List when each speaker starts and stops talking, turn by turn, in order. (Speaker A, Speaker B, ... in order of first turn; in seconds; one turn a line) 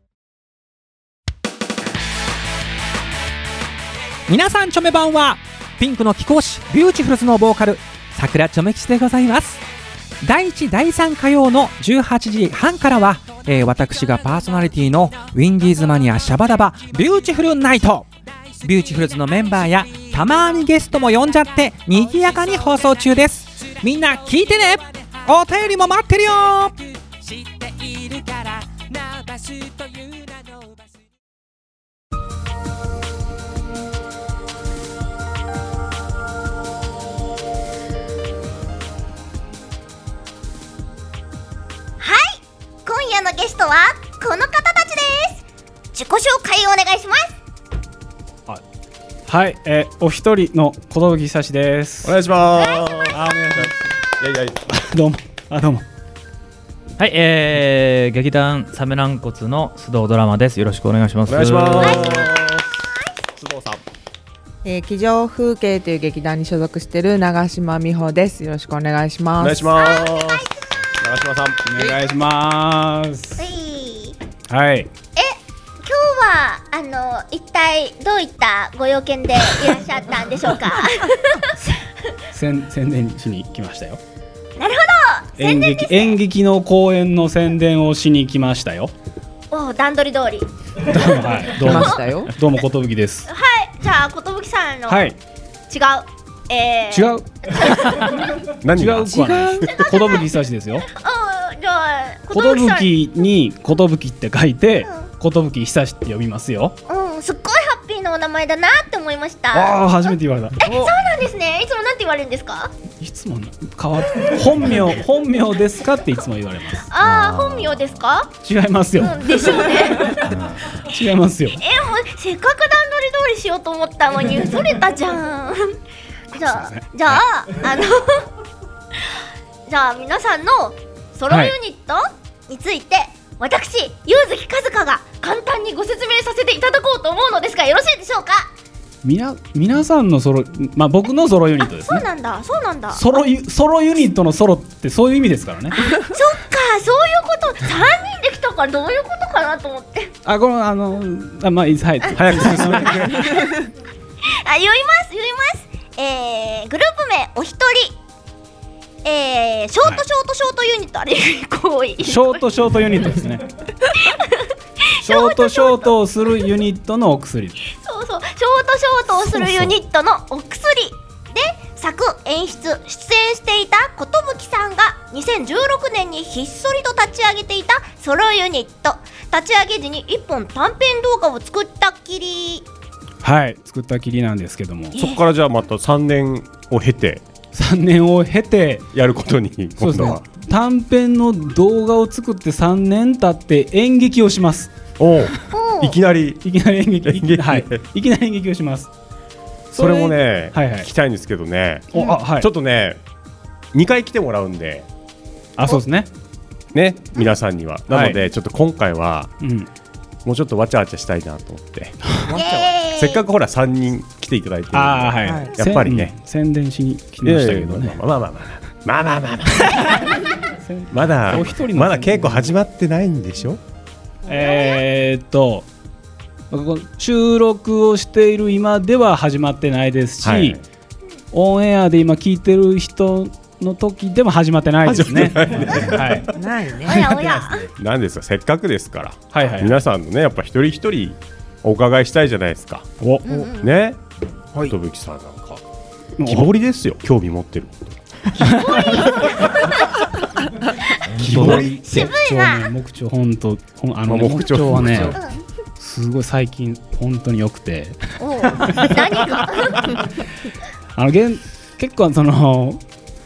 Speaker A: 4.3-9.6
Speaker A: 10.2-18.1
Speaker A: 18.6-26.8
Speaker B: 42.0-45.4
Speaker B: 45.9-47.3
Speaker C: 49.3-52.2
Speaker D: 52.0-54.7
Speaker B: 52.6-53.1
Speaker C: 53.1-53.8
Speaker C: 54.8-55.8
Speaker E: 57.0-62.0
Speaker D: 61.3-62.6
Speaker B: 61.8-62.3
Speaker D: 63.4-63.8
Speaker F: 64.6-69.7
Speaker D: 69.4-71.7
Speaker B: 69.8-70.5
Speaker C: 71.7-73.4
Speaker B: 73.4-74.2
Speaker C: 74.5-74.9
Speaker B: 75.2-81.5
Speaker C: 82.3-84.0
Speaker B: 84.6-86.2
Speaker C: 85.4-88.9
Speaker B: 89.5-92.0
Speaker C: 90.8-93.3
Speaker F: 91.6-92.3
Speaker B: 93.3-95.1
Speaker C: 94.9-95.2
Speaker B: 95.7-98.3
Speaker C: 96.9-98.2
Speaker D: 98.6-99.9
Speaker C: 98.7-100.8
Speaker F: 99.1-99.6
Speaker B: 99.7-100.2
Speaker B: 100.9-102.9
Speaker C: 102.3-106.7
Speaker B: 106.9-109.8
Speaker C: 109.5-110.8
Speaker B: 110.6-112.7
Speaker C: 113.0-116.9
Speaker B: 116.9-118.3
Speaker E: 117.0-117.9
Speaker C: 118.4-121.6
Speaker B: 119.0-120.2
Speaker B: 121.6-125.8
Speaker B: 126.3-128.3
Speaker C: 126.3-127.2
Speaker B: 129.7-138.5
Speaker C: 131.3-131.5
Speaker C: 139.0-142.0
Speaker B: 141.6-143.0
Speaker C: 142.9-145.8
Speaker B: 145.8-150.1
Speaker C: 150.2-153.2
Speaker D: 152.1-153.2
Speaker B: 154.3-157.9
Speaker B: 159.0-162.4
Speaker C: 162.0-163.5
Speaker B: 164.0-164.5
Speaker C: 165.0-167.6
Speaker B: 165.0-165.9
Speaker B: 167.7-182.7
Speaker C: 169.1-169.7
Speaker C: 183.2-184.9
Speaker B: 184.9-185.2
Speaker D: 185.0-187.2
Speaker C: 187.5-188.8
Speaker D: 188.9-190.2
Speaker C: 189.8-194.8
Speaker D: 195.0-196.4
Speaker B: 195.5-195.9
Speaker C: 196.4-198.9
Speaker D: 197.0-197.8
Speaker C: 199.7-200.9
Speaker D: 199.7-203.0
Speaker C: 201.9-202.5
Speaker D: 203.7-204.9
Speaker C: 205.6-206.1
Speaker D: 206.7-209.3
Speaker C: 207.9-208.2
Speaker C: 209.4-209.7
Speaker D: 210.2-212.0
Speaker C: 212.1-212.3
Speaker B: 212.3-213.2
Speaker D: 212.8-216.1
Speaker C: 214.7-218.0
Speaker F: 215.2-215.5
Speaker D: 217.2-220.0
Speaker C: 219.7-220.0
Speaker C: 220.6-222.5
Speaker D: 220.9-223.6
Speaker C: 224.2-225.7
Speaker B: 224.4-224.8
Speaker C: 226.5-230.6
Speaker D: 230.2-230.6
Speaker C: 231.3-236.3
Speaker D: 234.8-236.3
Speaker F: 236.3-237.1
Speaker B: 236.8-237.7
Speaker C: 236.8-237.6
Speaker D: 237.8-242.9
Speaker C: 239.3-239.8
Speaker C: 243.0-243.4
Speaker B: 243.2-243.7
Speaker D: 243.4-244.0
Speaker D: 244.6-245.6
Speaker C: 246.2-246.5
Speaker D: 246.2-248.6
Speaker C: 248.3-249.4
Speaker B: 248.6-249.9
Speaker D: 251.1-252.1
Speaker C: 251.2-255.2
Speaker B: 251.3-252.7
Speaker D: 254.0-255.2
Speaker C: 255.8-260.1
Speaker B: 258.2-260.0
Speaker C: 260.9-262.8